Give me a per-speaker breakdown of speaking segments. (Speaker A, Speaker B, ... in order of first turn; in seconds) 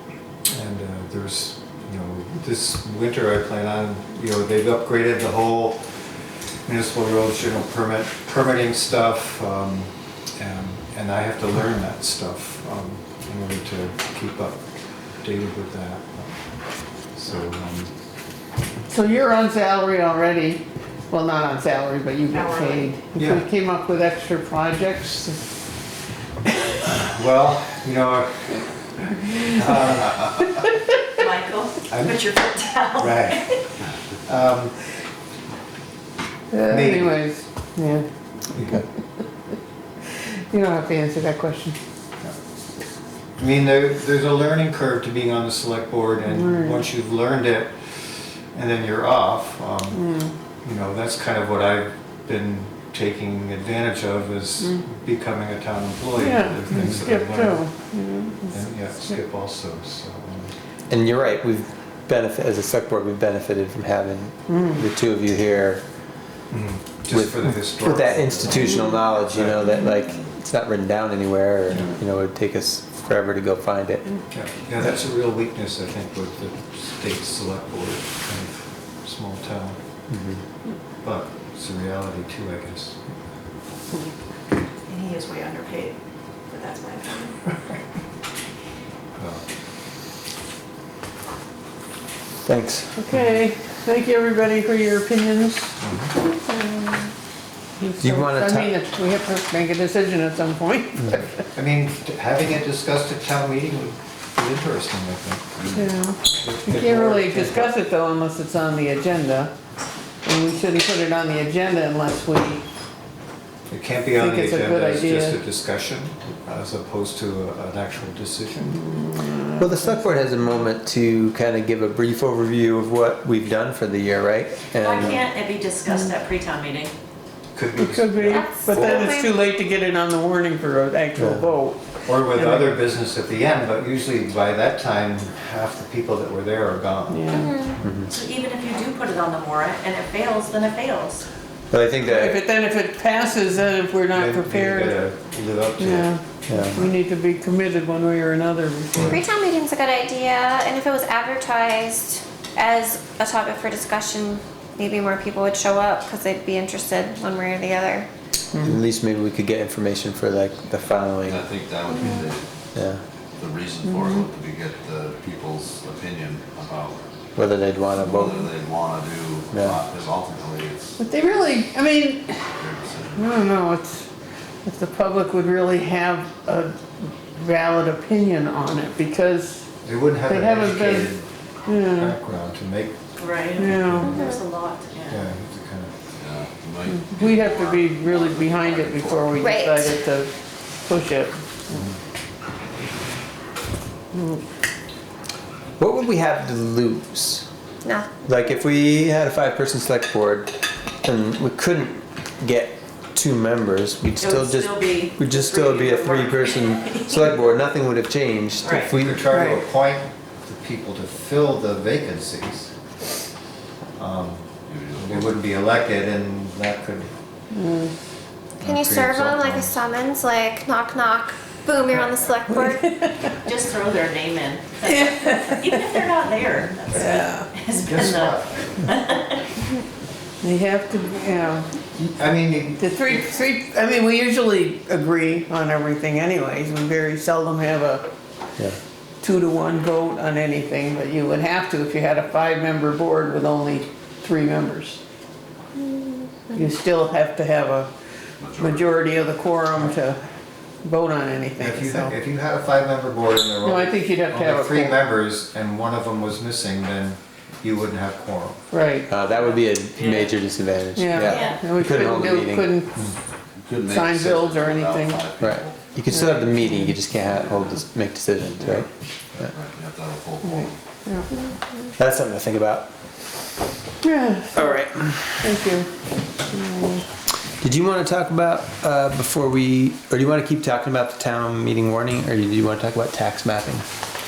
Speaker A: 0.5-6.0, 6.7-14.7, 15.2-16.4, 17.1-17.9, 23.1-23.4, 26.8-30.5, 31.9-32.3, 33.0-33.6, 34.2-34.8, 36.7-37.2, 38.5-38.8, 43.4-48.0, 48.5-50.1, 50.6-57.7, 58.5-60.5, 66.5-69.7, 71.7-72.0, 74.3-79.8, 81.0-83.1, 89.2-89.4, 95.8-96.1, 101.5-105.8, 106.3-107.7, 113.7-118.9, 127.5-129.1, 132.1-138.0, 144.1-146.8, 179.8-183.0, 183.6-184.2, 185.1-185.9, 191.7-192.0, 208.9-212.7, 214.0-217.1, 218.6-219.8, 227.8-228.7, 232.0-232.8, 251.6-258.6
Speaker B: 18.9-25.6, 36.5-38.1, 40.5-41.8, 46.4-46.8, 50.0-50.3, 56.2-58.6, 64.5-64.8, 93.0-95.8, 97.8-101.3, 105.8-109.5, 110.2-112.7, 114.2-115.4, 118.7-119.8, 127.8-132.8, 137.1-137.5, 142.0-145.0, 145.8-149.2, 163.9-164.2, 171.0-172.3, 173.2-174.1, 174.6-179.7, 180.2-181.2, 181.7-182.2, 183.6-184.1, 186.9-190.3, 190.8-191.4, 194.2-194.4, 217.5-217.9, 222.6-223.1, 224.8-225.9, 226.9-227.5, 230.4-231.7, 232.8-238.0, 239.2-245.0, 246.5-247.9, 248.6-250.2, 250.8-252.1, 253.6-255.0, 258.7-259.1, 260.9-263.1, 263.9-265.3, 266.1-266.4, 270.4-271.3, 274.0-274.8, 275.4-275.9, 276.4-277.0
Speaker C: 22.3-22.9, 31.2-33.5, 84.9-86.0, 86.5-87.3, 124.8-126.9, 138.1-141.2, 183.2-185.2, 204.2-207.3, 208.6-208.9, 223.4-229.4, 259.3-260.3, 261.2-261.6
Speaker D: 60.9-65.8, 67.1-74.0, 80.1-80.4, 92.5-92.9, 98.0-98.7, 119.5-125.2, 131.2-131.4, 137.8-138.1, 141.7-142.4, 146.5-146.8, 158.6-161.4, 162.8-163.0, 167.4-168.4, 169.5-169.8, 195.8-197.4, 198.2-200.5, 201.0-209.6, 259.1-262.8, 265.4-268.9, 272.0-272.9, 274.6-275.4, 277.6-283.9
Speaker E: 128.4-129.2, 137.5-137.7, 149.1-158.1, 184.1-184.4, 189.5-189.9, 197.8-198.1, 218.6-222.9
Speaker F: 161.2-162.5, 163.4-167.1, 168.0-171.1, 172.6-173.5, 186.2-189.5, 214.7-215.4, 248.4-249.1, 263.6-265.9, 267.2-267.5, 269.4-270.8